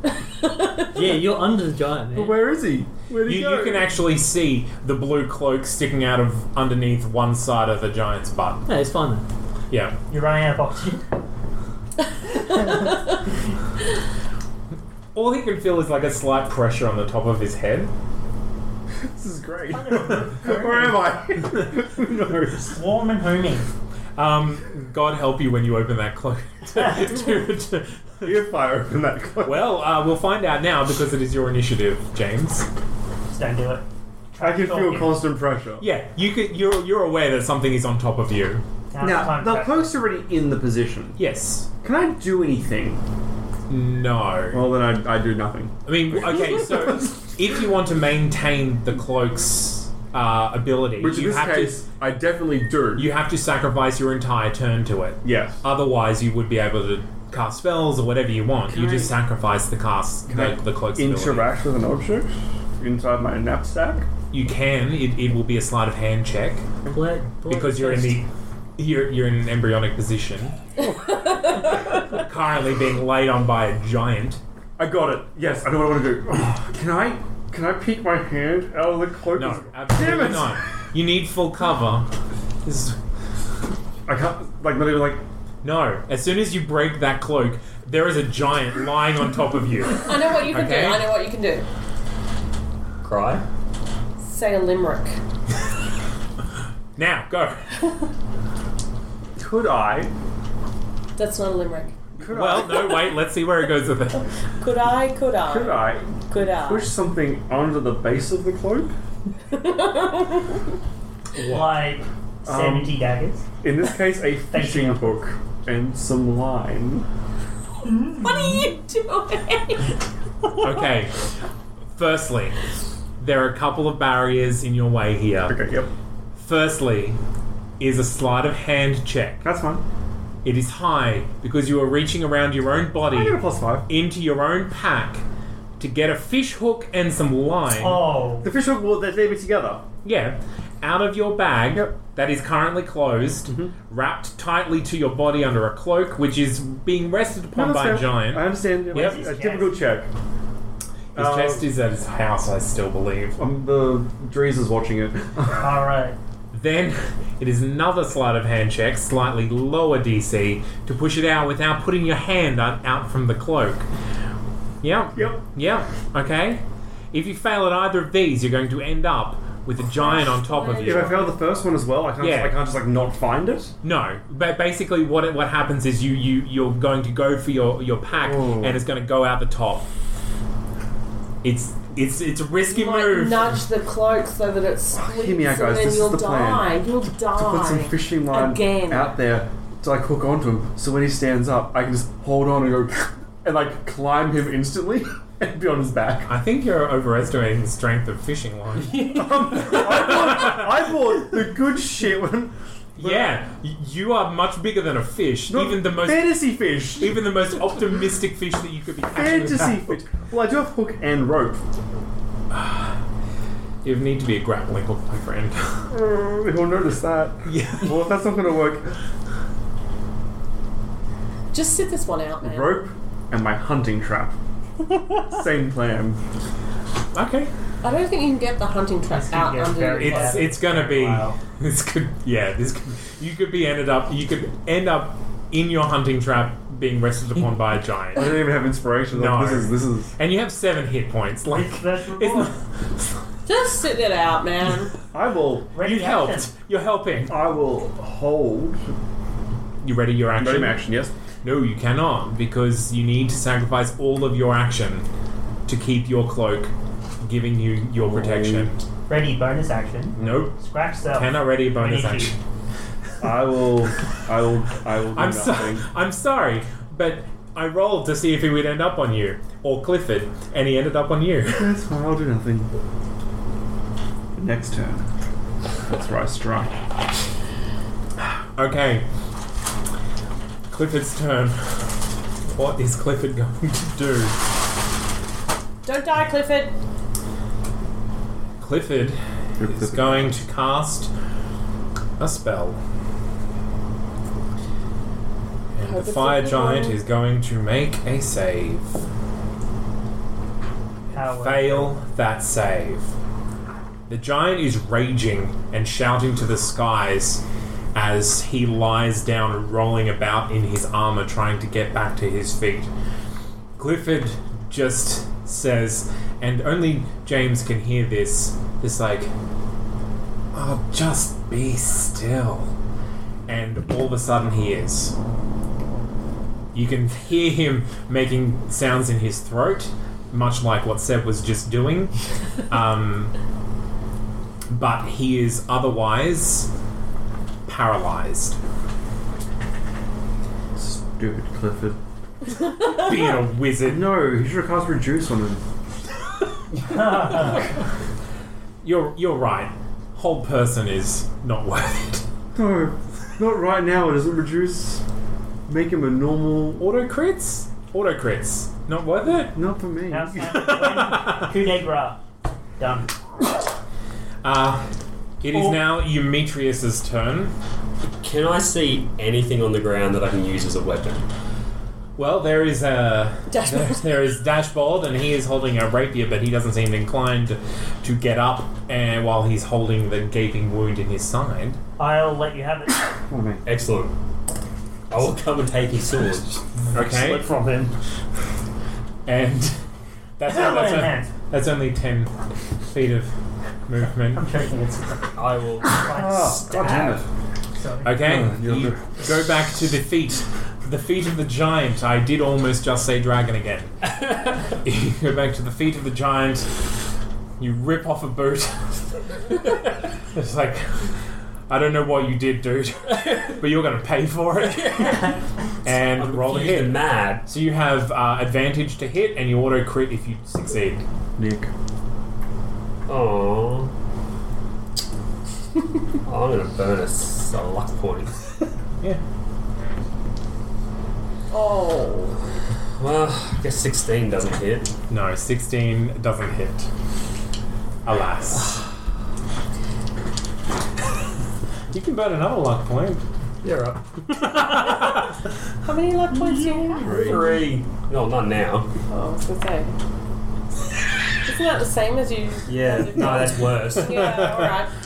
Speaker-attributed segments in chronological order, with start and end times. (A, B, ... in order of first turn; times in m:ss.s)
0:00.4-0:00.9 A
0:00.9-0:02.4 B
0:02.1-0:03.9 C
0:03.2-0:08.7 D
0:08.7-0:09.2 B
0:09.7-0:10.0 D
0:10.1-0:11.0 E
0:12.3-0:13.2 A
0:15.2-0:17.9 D
0:19.1-0:22.8 C
0:19.7-0:21.0 E
0:22.7-0:23.7 E
0:24.2-0:28.3 D
0:28.2-0:29.8 C
0:29.4-0:32.7 D
0:33.3-0:35.1 E
0:34.4-0:35.8 C
0:35.8-0:38.6 D
0:38.9-0:39.9 E
0:39.0-0:41.2 C
0:41.2-0:41.7 D
0:41.8-0:43.0 C
0:43.7-0:44.7 D
0:44.5-0:47.1 C
0:45.9-0:51.8 D
0:51.0-0:53.1 C
0:53.0-1:01.5 D
0:55.2-0:55.6 C
0:58.7-0:59.2 C
1:00.3-1:04.1 C
1:04.3-1:06.7 D
1:06.9-1:08.2 B
1:07.5-1:08.3 D
1:08.8-1:10.6 D
1:10.8-1:12.2 A
1:12.1-1:14.4 D
1:14.8-1:20.6 C
1:19.4-1:22.1 D
1:22.6-1:23.0 D
1:24.1-1:25.2 C
1:25.6-1:31.1 D
1:30.0-1:31.7 A
1:33.0-1:33.4 F
1:34.2-1:35.2 A
1:37.0-1:37.7 D
1:39.4-1:40.1 C
1:41.2-1:42.0 A
1:42.2-1:43.0 C
1:42.3-1:44.2 D
1:44.6-1:46.9 A
1:45.5-1:48.9 C
1:49.5-1:50.7 A
1:51.4-1:51.8 D
1:51.4-1:53.5 E
1:52.5-1:53.0 C
1:53.6-1:57.1 C
1:54.5-1:55.2 E
1:58.1-1:59.9 A
2:00.6-2:01.3 D
2:02.0-2:02.6 D
2:03.2-2:05.6 D
2:05.5-2:05.9 C
2:06.4-2:07.2 D
2:07.8-2:09.5 D
2:09.4-2:09.8 C
2:10.4-2:15.2 D
2:13.1-2:13.9 C
2:15.8-2:18.1 D
2:17.7-2:18.5 E
2:18.4-2:19.9 C
2:20.0-2:29.2 D
2:27.5-2:30.1 C
2:28.9-2:29.7 E
2:31.2-2:33.4 D
2:31.2-2:31.7 C
2:33.4-2:35.7 C
2:35.6-2:36.2 E
2:36.5-2:43.8 D
2:44.8-2:51.2 D
2:45.2-2:45.4 C
2:49.9-2:51.2 A
2:50.8-2:53.8 C
2:52.2-2:52.6 D
2:53.8-2:59.9 D
2:58.2-2:58.8 C
3:01.4-3:03.6 D
3:02.7-3:09.2 A
3:05.0-3:06.7 C
3:07.3-3:16.3 C
3:16.3-3:20.7 D
3:18.9-3:23.4 C
3:23.0-3:26.4 D
3:25.5-3:27.3 C
3:27.0-3:30.0 D
3:29.1-3:31.6 C
3:32.5-3:33.0 D
3:33.8-3:35.9 D
3:35.9-3:39.0 C
3:37.4-3:38.0 D
3:41.5-3:42.8 A
3:42.4-3:44.4 C
3:45.3-3:46.2 C
3:47.1-3:47.5 D
3:47.8-3:50.6 A
3:49.1-3:51.4 E
3:50.0-3:58.3 D
3:58.1-4:00.1 C
3:59.1-4:02.5 D
4:01.5-4:02.5 E
4:03.5-4:04.9 A
4:05.1-4:05.7 C
4:05.7-4:06.5 E
4:05.8-4:07.4 D
4:07.3-4:09.0 C
4:09.8-4:10.8 D
4:10.4-4:11.1 C
4:11.4-4:15.0 D
4:15.7-4:16.7 D
4:17.2-4:18.8 D
4:18.0-4:18.7 C
4:19.1-4:22.3 E
4:20.2-4:20.6 D
4:21.1-4:22.4 D
4:23.2-4:25.9 C
4:25.1-4:31.8 D
4:31.5-4:32.7 C
4:34.4-4:35.1 C
4:35.9-4:36.8 C
4:38.6-4:39.0 D
4:40.7-4:44.4 D
4:45.8-4:46.8 A
4:48.6-4:51.1 D
4:49.6-4:50.4 C
4:52.2-4:52.8 D
4:55.8-4:59.0 D
4:55.8-4:57.0 A
5:01.1-5:03.1 D
5:01.1-5:01.9 E
5:04.1-5:07.4 D
5:07.9-5:12.9 D
5:13.8-5:19.3 D
5:20.5-5:22.7 D
5:23.5-5:25.2 D
5:26.7-5:32.1 D
5:32.7-5:33.3 D
5:34.7-5:36.7 D
5:37.7-5:38.6 D
5:40.8-5:42.0 C
5:42.8-5:44.1 D
5:43.8-5:45.6 C
5:46.9-5:47.5 E
5:48.8-5:52.2 D
5:52.6-5:55.0 C
5:55.7-5:56.8 C
5:56.8-5:59.6 D
5:59.5-6:00.6 C
6:00.1-6:02.2 E
6:00.5-6:01.5 D
6:02.8-6:03.1 E
6:04.4-6:04.8 D
6:05.4-6:07.5 D
6:05.5-6:05.8 E
6:08.2-6:11.3 F
6:12.2-6:21.8 D
6:13.5-6:14.0 A
6:22.0-6:23.1 E
6:23.3-6:23.6 C
6:23.6-6:24.1 F
6:25.1-6:26.6 F
6:26.9-6:27.5 D
6:26.9-6:27.9 B
6:29.3-6:29.8 D
6:30.4-6:33.3 D
6:30.4-6:31.3 E
6:33.9-6:34.4 D
6:34.3-6:37.2 E
6:35.4-6:36.5 F
6:36.1-6:37.3 C
6:37.8-6:38.2 E
6:38.0-6:44.1 D
6:38.2-6:39.2 C
6:44.7-6:46.9 D
6:47.6-6:49.5 D
6:50.3-6:51.2 D
6:51.7-6:55.3 D
6:53.1-6:53.5 F
6:54.7-6:55.2 F
6:55.8-7:01.0 D
6:55.9-6:57.4 F
7:01.4-7:01.7 C
7:03.1-7:03.9 F
7:06.3-7:08.4 F
7:11.5-7:12.4 A
7:13.0-7:14.9 F
7:15.1-7:16.9 D
7:18.0-7:18.8 D
7:21.9-7:23.2 D
7:23.6-7:24.6 F
7:24.7-7:25.2 A
7:25.8-7:27.3 A
7:26.4-7:28.9 F
7:27.0-7:27.6 C
7:29.1-7:29.9 A
7:31.4-7:34.9 A
7:32.7-7:34.2 F
7:34.0-7:34.7 D